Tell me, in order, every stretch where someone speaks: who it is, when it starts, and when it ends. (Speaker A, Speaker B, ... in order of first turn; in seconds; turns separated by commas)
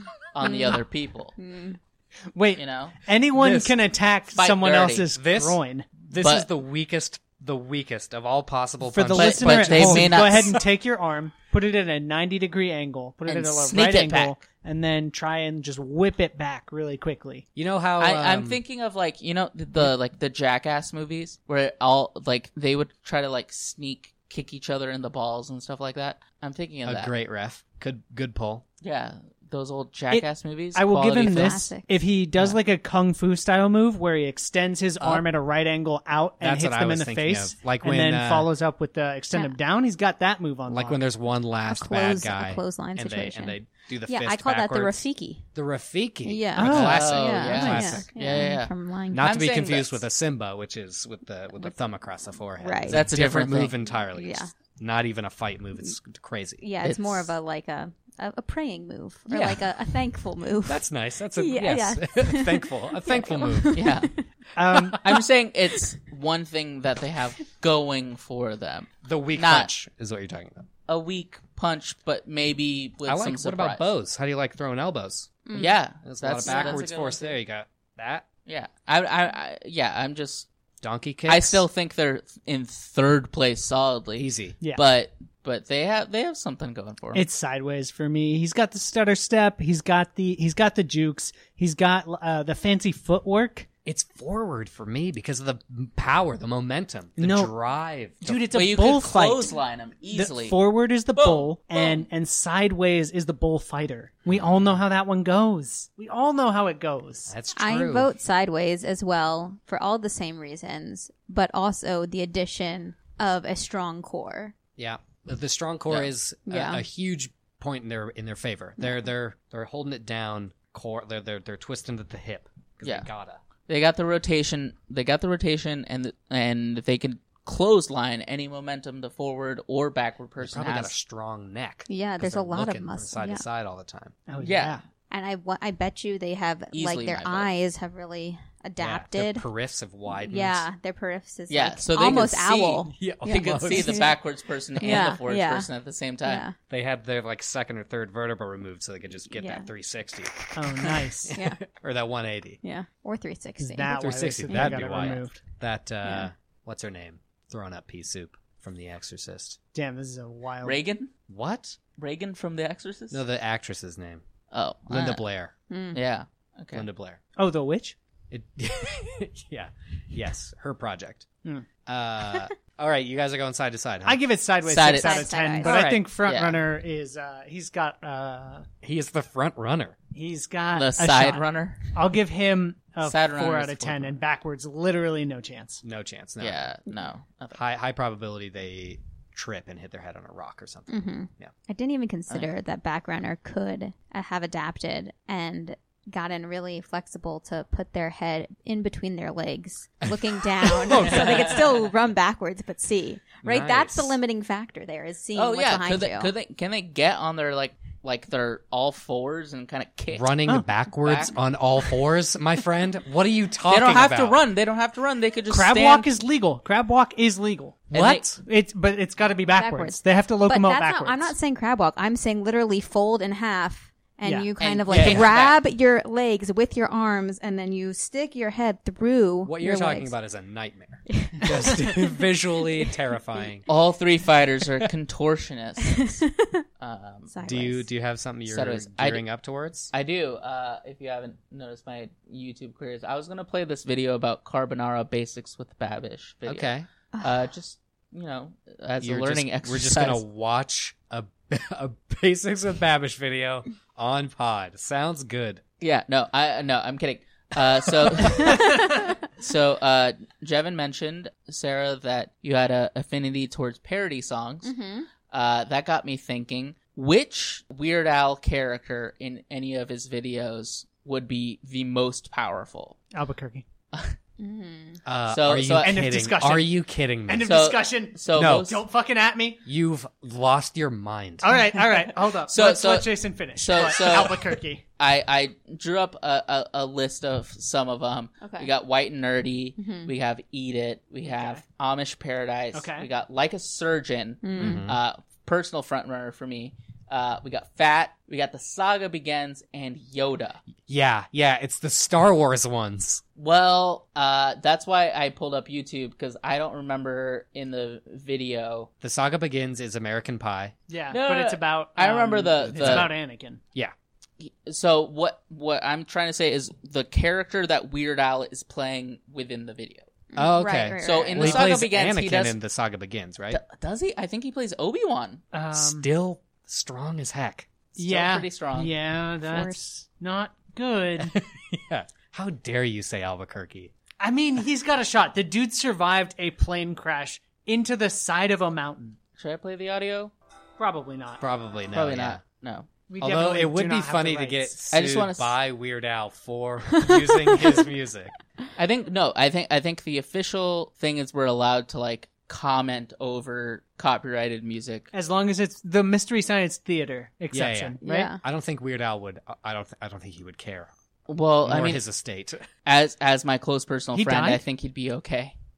Speaker A: 0.3-1.4, Speaker B: 0.4-0.8, Speaker B: 1.4-1.8, Speaker C: 2.3-5.9, Speaker A: 2.6-3.0, Speaker D: 3.3-3.8, Speaker A: 4.3-5.1, Speaker D: 5.2-10.6, Speaker A: 6.2-6.5, Speaker C: 8.8-17.5, Speaker A: 9.1-10.6, Speaker A: 13.3-14.4, Speaker D: 17.6-18.6, Speaker A: 18.0-27.1, Speaker D: 26.9-28.6, Speaker A: 28.8-31.6, Speaker C: 30.1-41.0, Speaker B: 31.2-31.9, Speaker D: 36.4-38.5, Speaker D: 40.7-48.4, Speaker B: 41.7-45.5, Speaker B: 46.2-49.3, Speaker C: 46.6-47.8, Speaker A: 46.7-50.0, Speaker D: 49.1-56.6, Speaker B: 52.6-53.1, Speaker A: 52.9-53.8, Speaker B: 54.1-54.5, Speaker B: 56.6-60.8, Speaker A: 56.8-57.3, Speaker D: 59.3-59.7, Speaker D: 60.7-63.9, Speaker B: 61.4-64.2, Speaker A: 63.7-64.1, Speaker C: 64.5-65.0, Speaker A: 64.9-69.7, Speaker D: 69.0-70.7, Speaker A: 70.9-73.9, Speaker D: 73.1-75.4, Speaker B: 75.5-75.8, Speaker A: 75.5-77.4, Speaker D: 76.0-78.3, Speaker B: 76.4-76.8, Speaker A: 78.5-80.5, Speaker D: 80.8-81.7, Speaker A: 81.3-87.2, Speaker D: 84.2-84.6, Speaker C: 87.1-93.7, Speaker D: 93.9-98.5, Speaker C: 97.2-97.5, Speaker C: 98.2-99.5, Speaker A: 98.5-100.6, Speaker C: 100.1-107.3, Speaker A: 101.2-102.0, Speaker D: 104.3-104.8, Speaker D: 107.3-108.1, Speaker B: 107.5-114.5, Speaker D: 114.8-123.4, Speaker B: 116.5-116.8, Speaker A: 122.8-123.1, Speaker A: 123.7-130.9, Speaker D: 130.4-134.1, Speaker B: 131.9-133.4, Speaker C: 134.3-134.8, Speaker A: 134.4-134.8, Speaker B: 135.1-139.5, Speaker A: 136.7-137.5, Speaker D: 138.8-140.7, Speaker B: 140.1-144.2, Speaker A: 141.5-146.4, Speaker D: 142.9-144.1, Speaker B: 144.8-145.7, Speaker B: 146.2-146.6, Speaker D: 146.7-152.6, Speaker B: 149.3-149.7, Speaker C: 150.6-151.3, Speaker B: 151.3-151.6, Speaker B: 152.6-153.9, Speaker C: 153.6-155.4, Speaker D: 153.9-159.6, Speaker B: 154.5-155.0, Speaker B: 156.0-156.3, Speaker C: 159.7-160.8, Speaker A: 160.6-161.1, Speaker D: 161.3-161.8, Speaker A: 162.0-163.2, Speaker D: 163.1-164.2, Speaker A: 164.5-165.2, Speaker D: 164.9-165.5, Speaker B: 165.7-166.0, Speaker A: 165.9-166.9, Speaker D: 166.7-167.2, Speaker C: 167.4-168.0, Speaker D: 168.3-171.3, Speaker D: 171.9-174.2, Speaker C: 174.1-178.7, Speaker A: 174.7-175.3, Speaker B: 174.9-175.8, Speaker D: 175.6-176.1, Speaker A: 176.2-176.6, Speaker D: 178.8-179.9, Speaker C: 180.1-185.8, Speaker A: 180.7-182.0, Speaker A: 183.0-184.2, Speaker D: 185.8-186.7, Speaker A: 186.4-187.6, Speaker D: 187.5-191.5, Speaker B: 190.9-206.3, Speaker D: 200.1-201.9, Speaker D: 203.4-204.2, Speaker A: 205.3-210.4, Speaker D: 210.1-214.4, Speaker A: 211.0-211.4, Speaker A: 213.7-216.1, Speaker C: 215.5-221.3, Speaker A: 217.9-218.3, Speaker D: 217.9-218.4, Speaker B: 219.5-230.1, Speaker C: 224.2-224.5, Speaker A: 224.6-225.6, Speaker D: 224.9-225.3, Speaker D: 229.4-233.7, Speaker B: 231.1-232.1, Speaker A: 233.7-236.2, Speaker B: 236.0-236.6, Speaker A: 236.8-237.3, Speaker B: 237.3-237.9, Speaker D: 237.4-239.9, Speaker A: 238.5-239.2, Speaker A: 239.9-250.2, Speaker D: 246.5-246.9, Speaker B: 247.1-247.4, Speaker D: 249.0-255.6, Speaker A: 255.8-264.7, Speaker D: 258.1-258.5, Speaker B: 258.5-259.1, Speaker B: 264.6-265.1, Speaker A: 265.3-273.0, Speaker C: 273.1-273.6, Speaker B: 274.4-275.0, Speaker D: 275.1-277.6, Speaker A: 275.3-276.0, Speaker C: 275.8-279.6, Speaker A: 277.4-278.8, Speaker D: 278.4-278.7, Speaker D: 279.7-281.6, Speaker C: 281.4-284.8, Speaker A: 282.5-300.6, Speaker B: 288.4-288.7, Speaker B: 289.8-290.1, Speaker C: 291.2-291.6, Speaker C: 292.7-293.1, Speaker B: 294.4-294.9, Speaker D: 294.6-295.0, Speaker D: 300.8-303.2, Speaker A: 303.4-308.9, Speaker D: 309.0-310.7, Speaker C: 310.9-313.6, Speaker A: 311.1-313.1, Speaker D: 312.7-313.1, Speaker A: 314.4-320.1, Speaker B: 320.3-321.8, Speaker D: 320.4-323.6, Speaker A: 321.0-322.6, Speaker A: 323.5-325.4, Speaker C: 325.5-326.1, Speaker D: 325.7-327.7, Speaker C: 328.0-331.3, Speaker A: 328.0-328.9, Speaker B: 329.5-329.8, Speaker D: 331.2-333.9, Speaker C: 334.2-339.2, Speaker A: 339.4-340.3, Speaker C: 340.8-341.4, Speaker D: 341.4-342.4, Speaker A: 341.9-342.9, Speaker C: 343.1-344.8, Speaker D: 343.2-348.3, Speaker A: 344.9-345.6, Speaker B: 347.0-347.7, Speaker A: 348.8-355.1, Speaker C: 355.1-358.3, Speaker D: 357.5-360.9, Speaker B: 358.0-358.4, Speaker A: 361.3-362.0, Speaker D: 361.6-362.7, Speaker A: 362.9-365.6, Speaker C: 364.1-364.6